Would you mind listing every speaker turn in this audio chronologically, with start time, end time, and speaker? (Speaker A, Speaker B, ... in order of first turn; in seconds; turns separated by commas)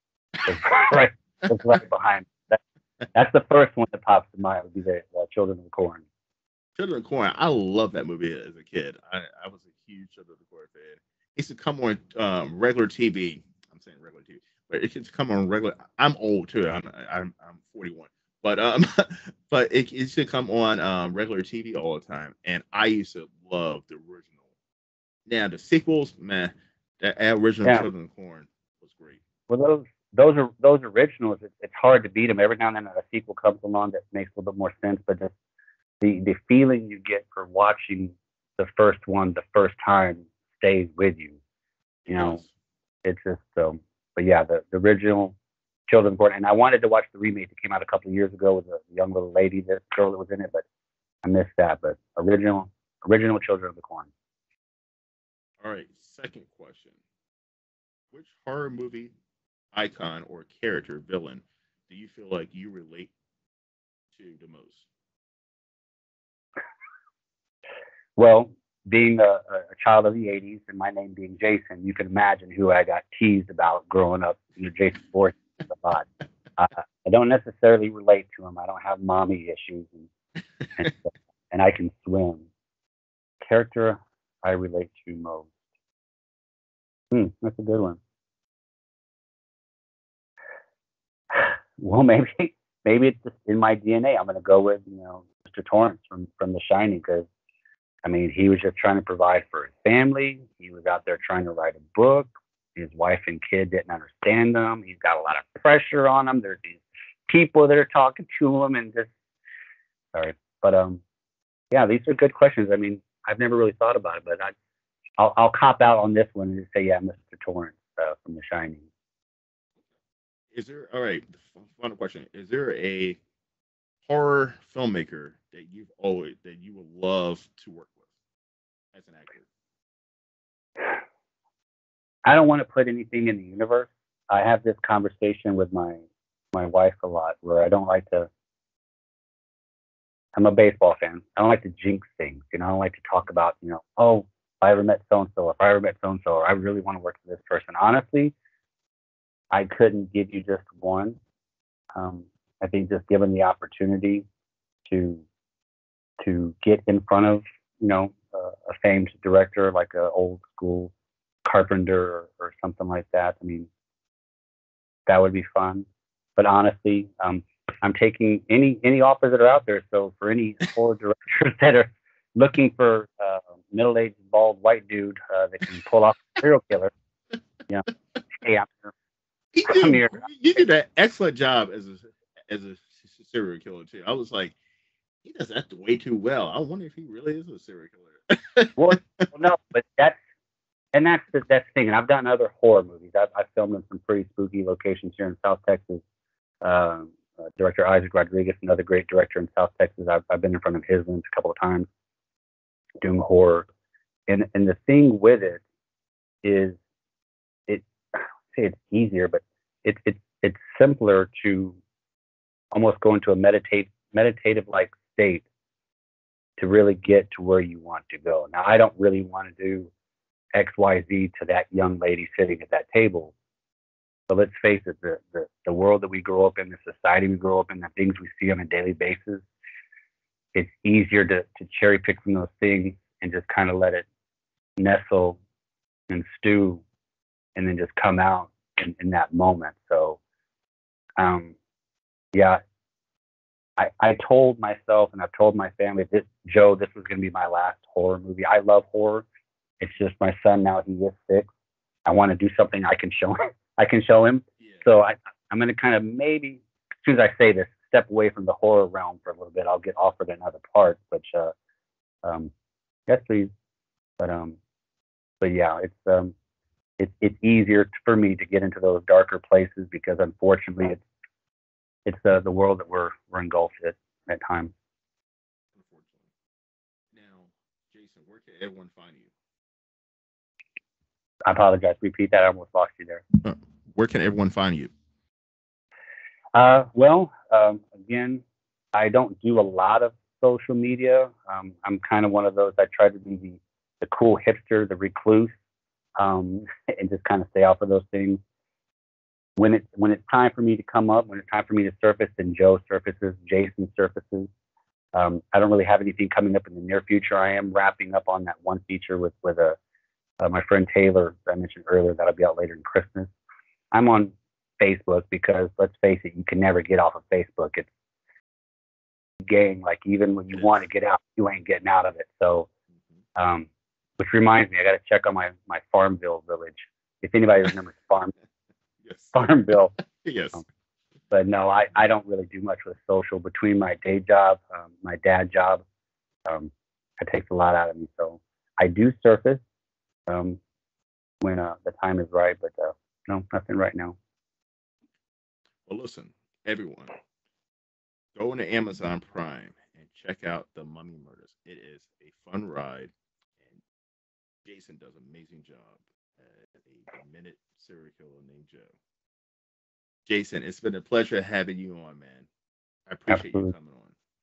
Speaker A: 0.5-2.6, Speaker A: 3.1-6.0, Speaker B: 6.8-24.3, Speaker B: 25.2-29.2, Speaker A: 29.5-35.3, Speaker A: 36.0-41.4, Speaker B: 42.0-42.5, Speaker A: 42.1-42.4, Speaker A: 43.0-45.3, Speaker A: 45.9-50.6, Speaker A: 51.2-54.1, Speaker B: 55.6-56.9, Speaker B: 58.1-59.1, Speaker B: 59.7-63.1, Speaker B: 64.1-64.8, Speaker A: 68.2-80.1, Speaker A: 80.8-82.5, Speaker A: 83.4-85.5, Speaker A: 87.1-88.0, Speaker A: 91.3-97.3, Speaker A: 98.0-109.1, Speaker A: 110.1-111.0, Speaker A: 111.7-114.5, Speaker A: 115.2-118.9, Speaker B: 120.5-123.2, Speaker B: 124.0-128.0, Speaker B: 128.9-129.5, Speaker A: 132.2-136.0, Speaker A: 136.5-138.3, Speaker A: 140.3-148.3, Speaker A: 149.5-151.2, Speaker A: 151.9-154.2, Speaker A: 154.8-155.2, Speaker A: 156.2-160.9, Speaker A: 161.4-163.7, Speaker A: 165.1-165.8, Speaker A: 166.4-176.9, Speaker A: 177.7-178.9, Speaker B: 179.5-184.6, Speaker A: 179.7-180.2, Speaker B: 185.2-188.9, Speaker A: 188.8-190.2, Speaker A: 190.9-196.0, Speaker A: 196.6-201.9, Speaker A: 203.0-203.7, Speaker A: 204.3-205.6, Speaker A: 206.4-206.8, Speaker A: 207.7-211.8, Speaker A: 212.7-215.4, Speaker A: 216.6-219.9, Speaker A: 220.5-223.3, Speaker A: 224.3-229.4, Speaker A: 230.5-234.0, Speaker A: 234.8-235.4, Speaker A: 236.1-236.8, Speaker A: 237.6-240.2, Speaker A: 241.2-241.5, Speaker A: 242.3-242.6, Speaker A: 243.8-249.2, Speaker A: 249.8-251.5, Speaker A: 252.1-261.5, Speaker A: 262.2-262.5, Speaker A: 263.1-263.5, Speaker A: 264.2-264.6, Speaker A: 265.4-266.3, Speaker A: 267.0-271.0, Speaker A: 272.1-274.7, Speaker B: 275.7-276.3, Speaker B: 277.1-279.3, Speaker A: 281.4-283.2, Speaker B: 283.4-284.9, Speaker A: 286.5-288.4, Speaker A: 288.9-295.5, Speaker A: 296.2-298.4, Speaker A: 299.6-304.5, Speaker A: 305.1-309.8, Speaker A: 310.4-313.3, Speaker A: 313.9-317.9, Speaker A: 319.5-322.7, Speaker A: 323.4-328.3, Speaker B: 329.0-329.4, Speaker A: 329.3-329.9, Speaker B: 330.0-330.6, Speaker A: 331.3-335.8, Speaker A: 336.4-339.6, Speaker A: 340.3-340.6, Speaker A: 341.4-344.1, Speaker B: 345.9-347.1, Speaker B: 348.3-353.1, Speaker B: 354.6-358.9, Speaker B: 360.3-362.5, Speaker B: 363.1-364.1, Speaker A: 363.3-363.7